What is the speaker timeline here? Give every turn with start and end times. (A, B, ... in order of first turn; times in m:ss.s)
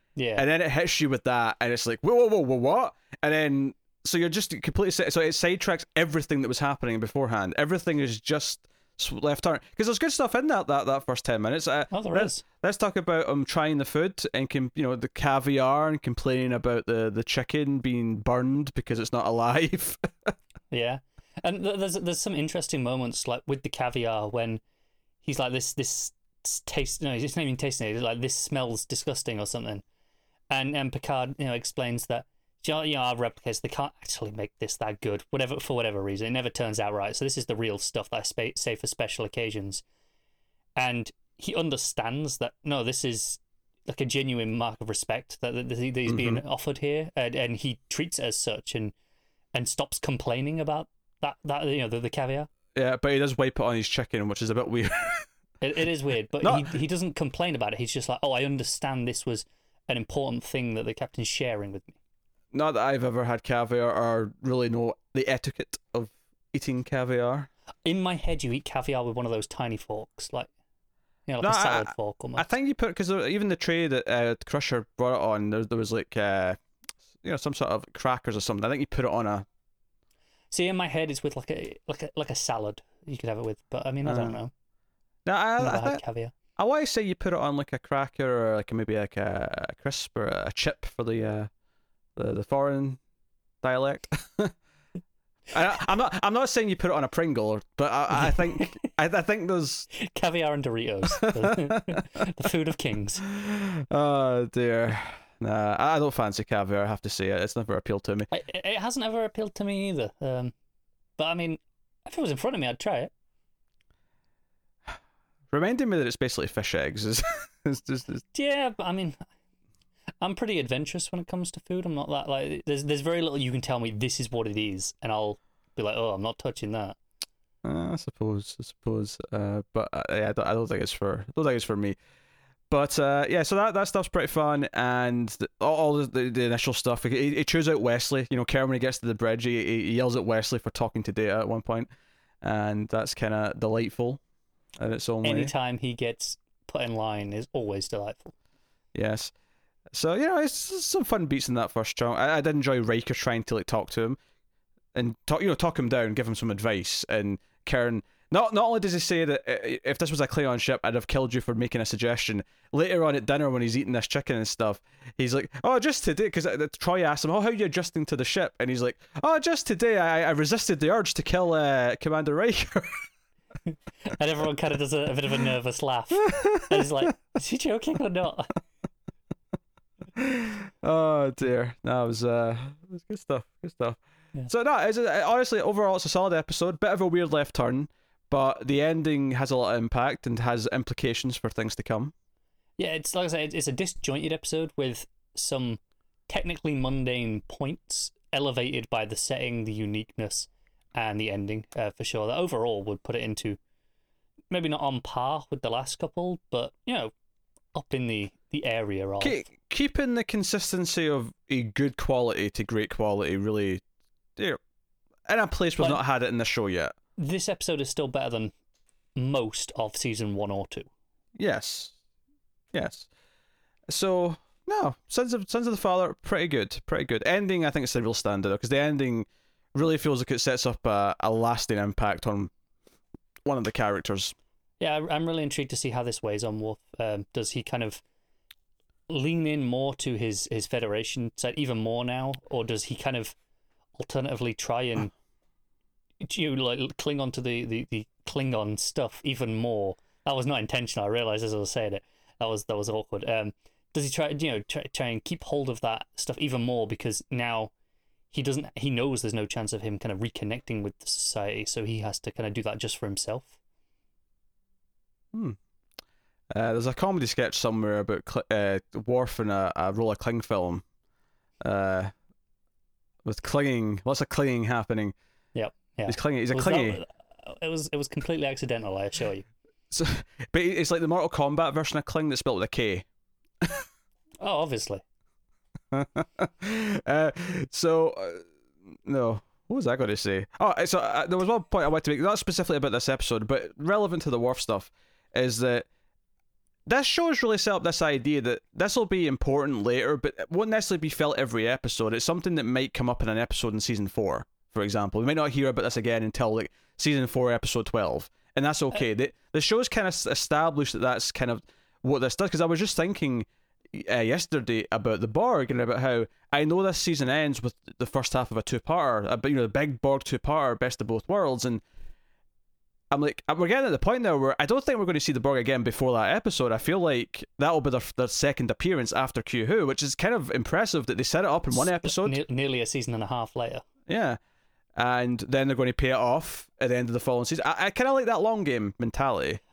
0:00.2-0:00.4 A
0:00.4-0:20.3 B
0:11.9-0:12.4 A
0:20.7-0:24.6 A
0:25.2-0:29.8 A
0:30.5-0:39.8 A
0:40.8-0:48.9 A
0:46.1-0:46.4 B
0:49.5-0:52.5 A
0:52.7-0:55.3 B
0:55.6-1:02.0 A
0:56.4-0:56.7 B
1:02.5-1:07.5 B
1:07.8-1:10.5 A
1:11.3-1:12.5 A
1:11.4-1:16.6 B
1:17.2-1:19.4 B
1:20.5-1:24.5 A
1:24.0-1:24.4 B
1:25.2-1:26.0 B
1:25.6-1:26.3 A
1:26.6-1:31.5 B
1:32.2-1:33.0 B
1:33.6-1:34.5 B
1:35.5-1:39.9 B
1:39.9-1:43.2 A
1:41.2-1:42.0 B
1:43.2-1:48.3 B
1:48.3-1:50.5 A
1:51.2-1:53.1 A
1:55.5-1:58.2 B
1:58.3-1:59.2 A
2:00.2-2:07.0 A
2:07.6-2:12.0 B
2:12.7-2:21.9 B
2:22.4-2:24.2 B
2:24.8-2:25.5 B
2:25.2-2:28.3 A
2:28.9-2:29.3 B
2:29.9-2:34.2 B
2:34.9-2:53.0 B
2:53.7-2:58.6 A
2:56.2-2:56.9 B
3:00.2-3:12.1 B
3:12.8-3:23.6 A
3:24.5-3:27.1 A
3:27.7-3:29.4 A
3:29.2-3:33.8 B
3:35.3-3:36.9 B
3:37.2-3:38.5 A
3:39.2-3:40.9 A
3:41.4-3:41.9 B
3:42.7-3:43.1 B
3:43.9-3:52.5 B
3:53.4-3:54.3 B
3:54.8-3:58.0 A
3:59.1-4:03.3 A
4:04.0-4:05.1 A
4:06.2-4:17.7 A
4:18.3-4:23.5 A
4:26.5-4:30.8 B
4:31.6-4:32.1 B
4:33.2-4:35.1 B
4:35.5-4:39.4 A
4:36.1-4:37.0 B
4:39.9-4:43.0 B
4:43.6-4:43.9 B
4:44.4-4:45.0 A
4:45.9-4:48.5 B
4:49.0-4:55.9 B
4:56.8-5:21.8 B
5:23.1-5:32.4 B
5:31.7-5:33.8 A
5:34.1-5:34.4 B
5:35.0-5:39.6 B